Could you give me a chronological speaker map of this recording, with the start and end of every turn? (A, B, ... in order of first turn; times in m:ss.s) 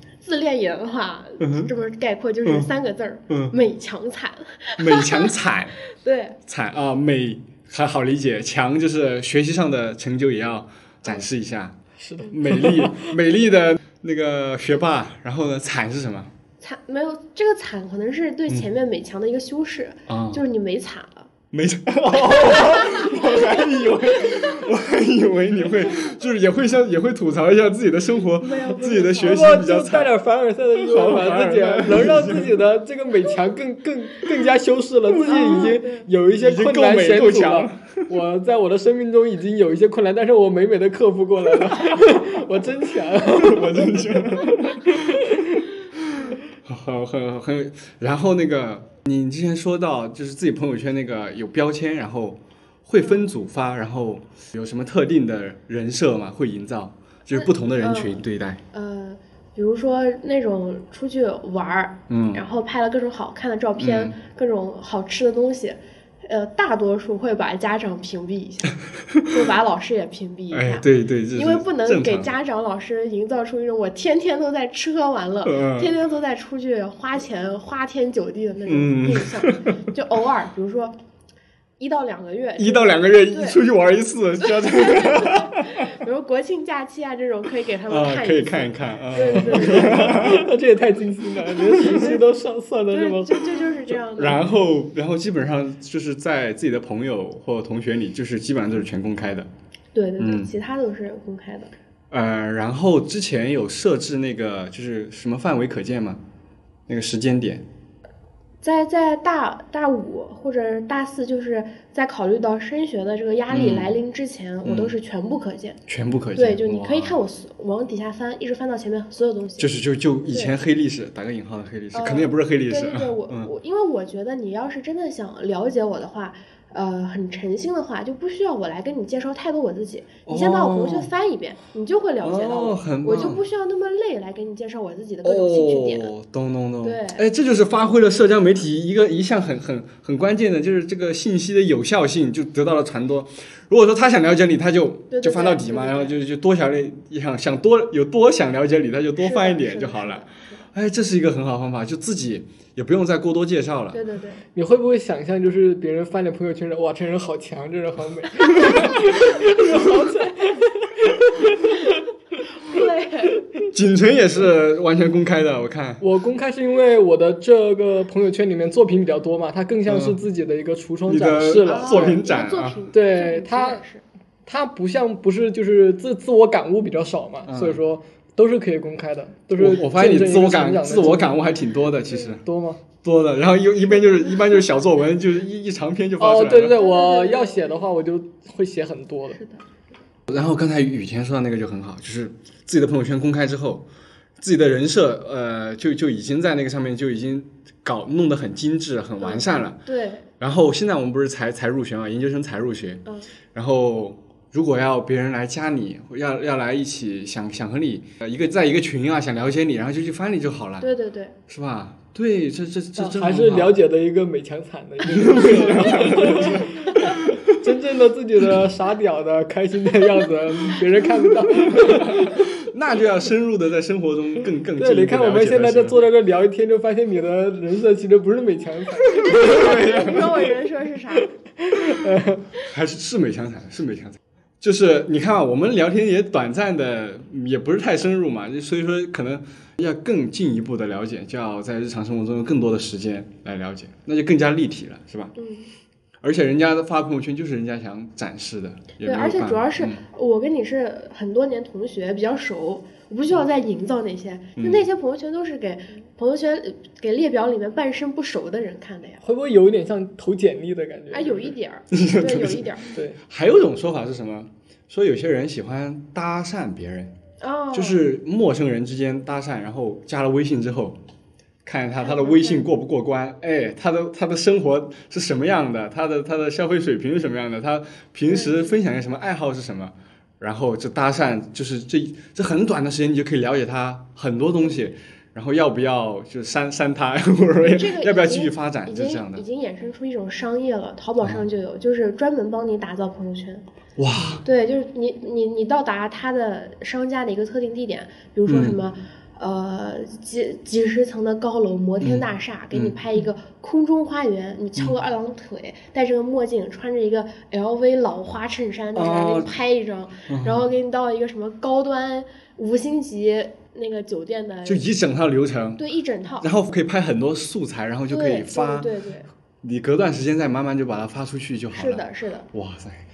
0:00.2-0:05.3 A
0:01.4-0:01.7 B
0:03.3-0:03.6 B
0:04.8-0:05.8 B
0:05.9-0:06.4 A
0:06.5-0:11.8 B
0:12.0-0:13.1 C
0:12.3-0:16.3 B
0:16.6-0:21.3 A
0:20.1-0:20.4 B
0:21.5-0:30.1 B
0:22.4-0:24.6 A
0:28.4-0:29.5 A
0:29.2-0:45.5 C
0:30.8-0:32.6 B
0:35.3-0:36.1 A
0:36.4-0:38.0 B
0:43.4-0:45.3 B
0:46.0-0:58.6 B
0:53.0-0:53.3 A
0:57.3-0:58.2 A
0:58.7-1:08.7 A
1:02.1-1:02.4 B
1:03.8-1:04.2 B
1:09.3-1:21.0 A
1:10.5-1:12.3 B
1:15.4-1:15.9 B
1:18.7-1:19.8 B
1:21.8-1:23.6 A
1:22.6-1:25.9 B
1:24.4-1:30.3 A
1:27.9-1:30.5 B
1:29.1-1:33.6 C
1:31.7-1:32.1 B
1:32.9-1:34.5 A
1:34.2-1:39.5 B
1:39.9-1:41.7 A
1:40.2-1:40.5 B
1:42.1-1:46.2 B
1:46.9-1:47.6 B
1:48.6-1:55.8 A
1:53.5-1:54.0 B
1:54.6-1:55.0 B
1:55.9-1:57.2 B
1:56.4-2:00.6 A
1:59.6-2:03.5 B
2:01.9-2:16.1 A
2:10.3-2:11.1 B
2:12.2-2:13.4 B
2:15.2-2:34.0 B
2:16.8-2:17.2 A
2:25.1-2:26.2 A
2:29.2-2:30.6 A
2:33.9-2:34.4 A
2:34.6-2:42.0 C
2:42.6-2:43.4 A
2:43.7-2:46.0 B
2:46.0-2:52.2 C
2:49.9-2:50.2 B
2:51.1-2:52.8 B
2:51.6-2:54.0 A
2:52.9-2:53.8 C
2:54.5-3:01.5 C
2:57.5-2:57.8 B
2:59.6-3:02.4 B
3:02.4-3:02.8 C
3:03.0-3:06.8 B
3:06.2-3:09.4 C
3:06.8-3:07.8 A
3:09.4-3:09.6 A
3:10.3-3:13.9 B
3:14.4-3:19.8 B
3:19.2-3:20.3 A
3:20.4-3:30.9 B
3:30.8-3:31.4 A
3:31.5-3:33.8 B
3:33.0-3:42.5 C
3:35.0-3:37.6 B
3:41.3-3:46.0 B
3:44.8-3:50.3 C
3:49.0-3:50.5 B
3:49.2-3:51.3 A
3:51.6-3:52.4 C
3:52.6-4:05.4 B
4:05.4-4:05.7 A
4:06.2-4:10.0 B
4:09.0-4:19.2 A
4:14.6-4:14.9 B
4:19.2-4:21.6 C
4:21.1-4:22.8 A
4:21.9-4:27.1 B
4:22.9-4:23.2 C
4:27.4-4:28.0 A
4:27.7-4:31.0 B
4:31.6-4:49.4 B
4:32.0-4:32.7 A
4:38.3-4:38.7 A
4:47.6-4:53.6 A
4:51.2-4:51.5 B
4:54.0-4:54.4 B
4:54.4-5:14.9 A
4:58.5-4:58.8 B
5:02.0-5:03.0 B
5:09.0-5:09.5 B
5:10.3-5:10.7 B
5:14.6-5:15.8 B
5:15.8-5:16.5 A
5:16.4-5:18.9 B
5:18.1-5:19.3 A
5:19.6-5:23.0 B
5:21.7-5:22.5 A